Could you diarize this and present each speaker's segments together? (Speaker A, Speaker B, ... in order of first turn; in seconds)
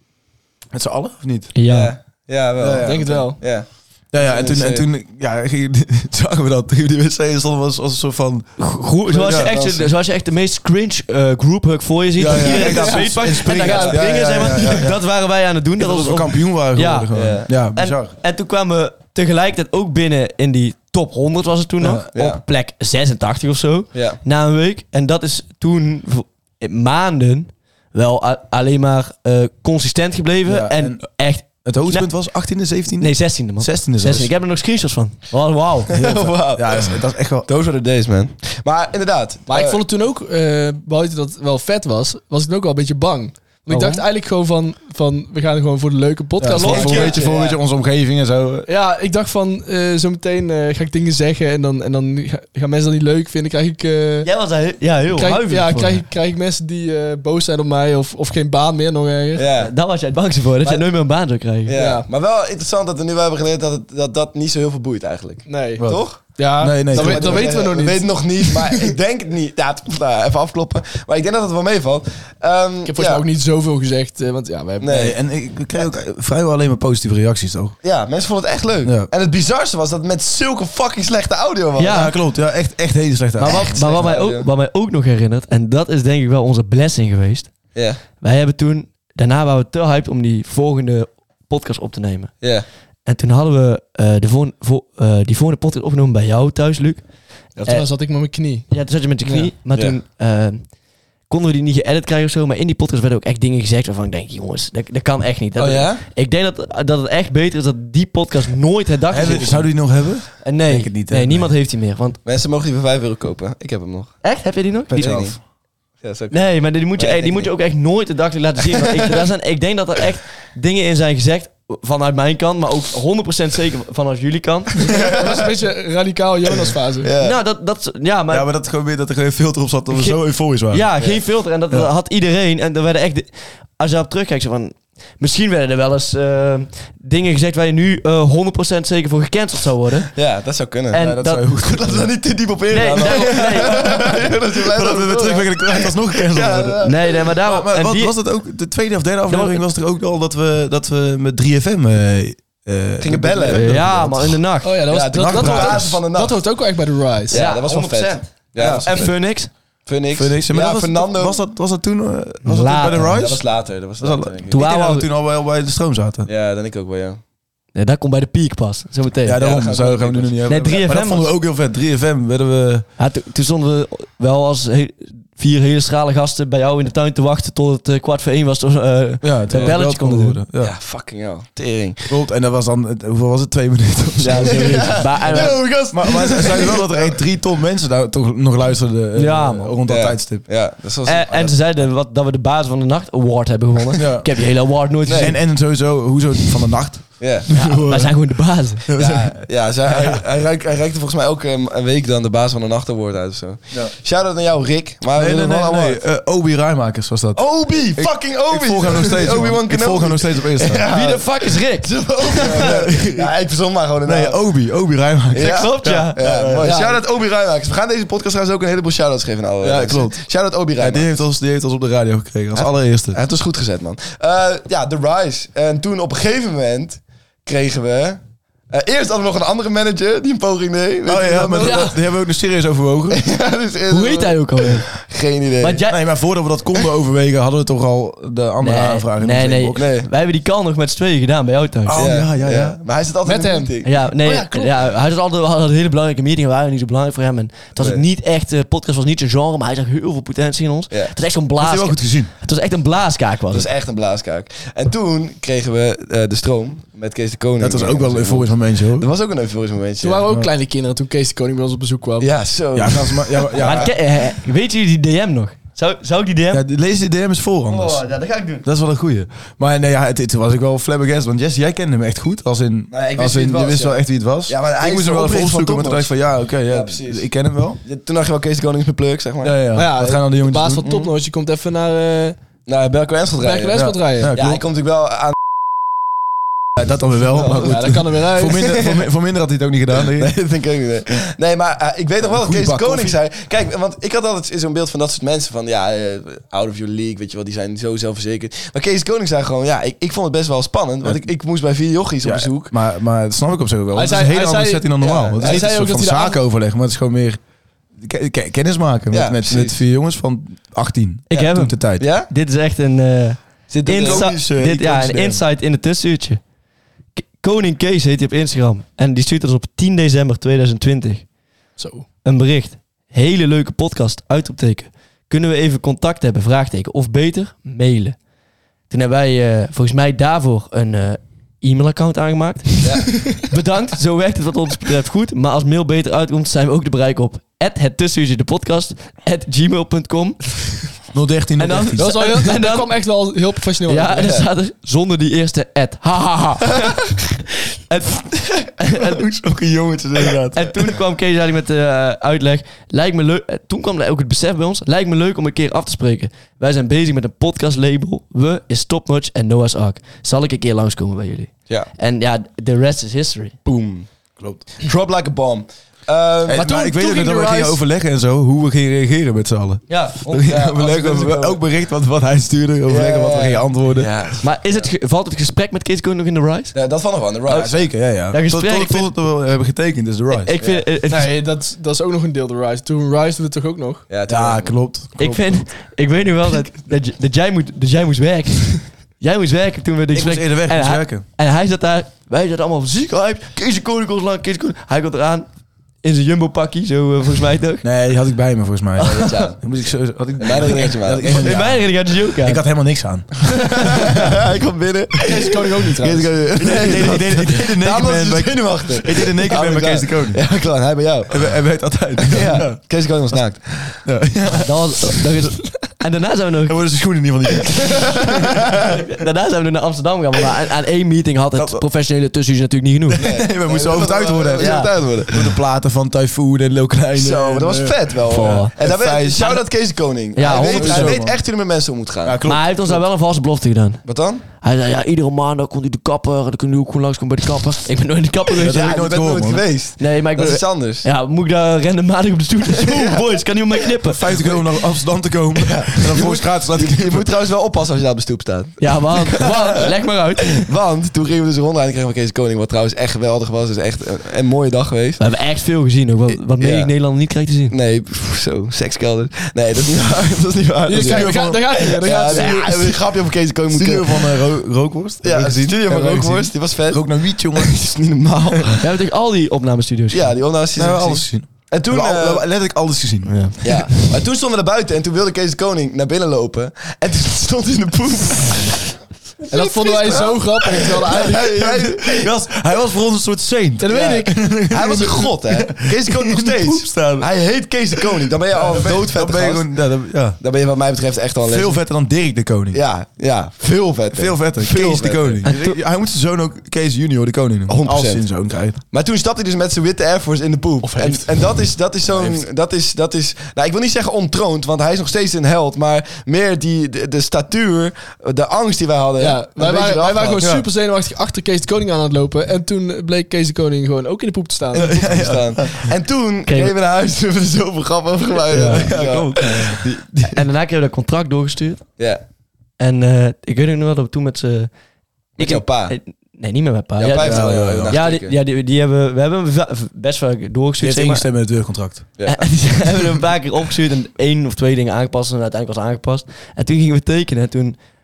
Speaker A: 0.7-1.5, 2.6-3.3, 4.1-8.5, 9.1-9.5, 12.2-14.9, 15.8-18.1, 21.8-22.1, 30.4-34.3, 35.9-37.5, 43.7-44.0, 46.4-48.7, 66.5-67.5, 74.9-77.7, 78.8-79.1, 81.8-83.7, 109.1-111.5, 128.3-130.8, 140.9-154.4, 155.0-156.0, 158.6-159.1, 160.1-166.3, 169.2-172.8, 179.2-180.8, 182.1-190.5, 193.9-194.3, 195.1-200.2, 205.1-210.9, 212.4-213.3, 214.0-217.0, 219.6-223.2, 231.1-233.2, 235.9-239.8, 241.8-242.8, 251.6-252.3, 257.6-259.1, 262.7-263.9, 266.5-268.1, 268.6-277.8, 279.4-280.9, 283.7-284.6, 286.8-290.3, 292.2-293.2, 302.2-307.4, 308.0-312.0, 314.0-315.4, 341.1-342.1, 348.9-350.8, 364.4-364.6, 366.5-374.1, 377.5-380.5, 384.3-385.6, 390.1-391.2, 397.8-404.2, 406.6-410.4, 411.3-415.2, 416.7-418.9, 421.6-421.9, 423.1-429.6, 430.4-431.4, 432.2-433.0, 438.6-439.6, 444.0-447.3, 460.9-462.6, 463.7-467.8, 470.7-473.9, 481.2-487.3, 487.9-490.4, 491.4-492.8, 494.1-498.8, 510.4-510.6, 514.7-515.9, 518.5-519.9, 527.2-528.0, 530.8-532.1
Speaker B: 1.5-1.9, 8.6-32.1, 33.0-35.9, 46.5-47.2, 54.2-56.0, 59.6-61.8, 81.8-82.1, 83.4-92.5, 93.0-97.0, 97.6-97.9, 98.7-100.7, 101.3-109.9, 110.4-112.2, 114.2-115.4, 116.3-124.9, 127.2-128.5, 129.9-140.2, 140.9-141.5, 142.7-143.9, 146.8-148.1, 149.3-149.6, 153.5-154.7, 157.3-159.5, 162.4-163.2, 164.5-165.1, 167.7-169.7, 170.4-171.3, 173.0-180.4, 184.2-185.7, 189.1-189.8, 191.0-195.4, 197.5-198.9, 210.9-212.8, 215.4-216.7, 233.9-234.9, 235.6-236.0, 238.6-242.0, 243.8-253.7, 263.6-266.6, 267.7-268.6, 311.3-316.4, 317.1-321.2, 322.2-328.2, 328.9-340.8, 341.6-342.9, 343.9-347.2, 347.9-349.2, 350.5-363.6, 369.9-370.5, 374.4-376.7, 378.3-379.1, 380.3-381.3, 385.2-395.5, 396.0-397.9, 401.2-402.6, 414.6-416.8, 418.8-423.3, 424.6-424.9, 428.3-428.7, 430.3-431.2, 432.4-434.0, 434.5-439.0, 440.0-444.3, 448.8-450.7, 455.2-457.7, 468.8-470.4, 473.2-473.9, 495.4-495.8, 516.5-516.8, 518.5-519.3, 520.3-521.9, 522.8-524.7, 525.4-531.2, 532.2-537.8
Speaker C: 1.6-4.8, 9.1-9.9, 13.7-14.9, 17.1-17.5, 22.1-22.4, 23.9-24.2, 35.9-39.8, 46.6-47.6, 59.4-59.7, 60.6-60.9, 61.6-66.3, 66.9-73.2, 74.8-75.2, 77.8-82.1, 83.4-84.5, 87.7-88.0, 92.4-92.7, 105.6-106.0, 112.2-114.2, 114.9-115.4, 116.0-117.5, 127.0-127.4, 140.1-147.1, 153.0-153.8, 154.9-156.4, 157.3-159.2, 159.8-161.4, 163.1-164.6, 166.2-167.2, 169.4-170.4, 179.5-179.8, 180.6-182.1, 184.3-187.2, 189.8-191.5, 195.1-195.4, 197.2-197.5, 198.9-206.0, 207.3-214.4, 215.3-221.1, 222.5-231.9, 233.1-235.8, 239.7-240.1, 241.9-244.1, 247.8-248.0, 253.5-260.2, 262.2-263.9, 272.9-276.1, 276.6-277.3, 277.8-279.6, 280.8-281.1, 282.6-285.3, 287.4-287.7, 288.6-289.1, 290.0-302.7, 305.0-305.7, 309.1-309.8, 311.3-312.3, 313.7-314.5, 332.8-333.0, 363.6-364.1, 364.7-366.6, 370.3-371.6, 372.9-374.9, 376.7-377.9, 380.6-380.9, 384.1-384.8, 399.0-399.6, 400.4-401.8, 403.9-411.6, 412.2-414.0, 423.1-425.6, 427.1-432.4, 434.0-434.4, 438.6-441.1, 442.8-443.2, 445.6-449.9, 450.5-455.2, 456.6-456.9, 457.7-464.4, 465.2-468.8, 470.1-472.4, 473.6-479.0, 479.8-482.3, 483.9-489.7, 490.4-491.8, 492.7-495.4, 497.7-510.5, 514.7-520.3, 525.4-526.0, 527.0-528.4, 532.2-532.5
Speaker D: 2.8-3.4, 12.3-13.9, 39.5-47.3, 48.7-54.3, 55.1-59.5, 61.7-62.1, 65.5-68.9, 72.8-75.1, 97.5-98.7, 99.2-99.5, 124.9-127.1, 154.6-157.4, 243.2-243.7, 244.2-244.6, 260.0-262.3, 279.7-282.4, 283.4-284.3, 287.5-288.8, 303.9-306.4, 321.8-322.1, 341.9-344.5, 366.5-367.8, 381.1-384.1, 405.2-406.5, 460.9-463.0, 479.5-481.7, 483.8-484.6, 500.8-501.3, 509.2-515.4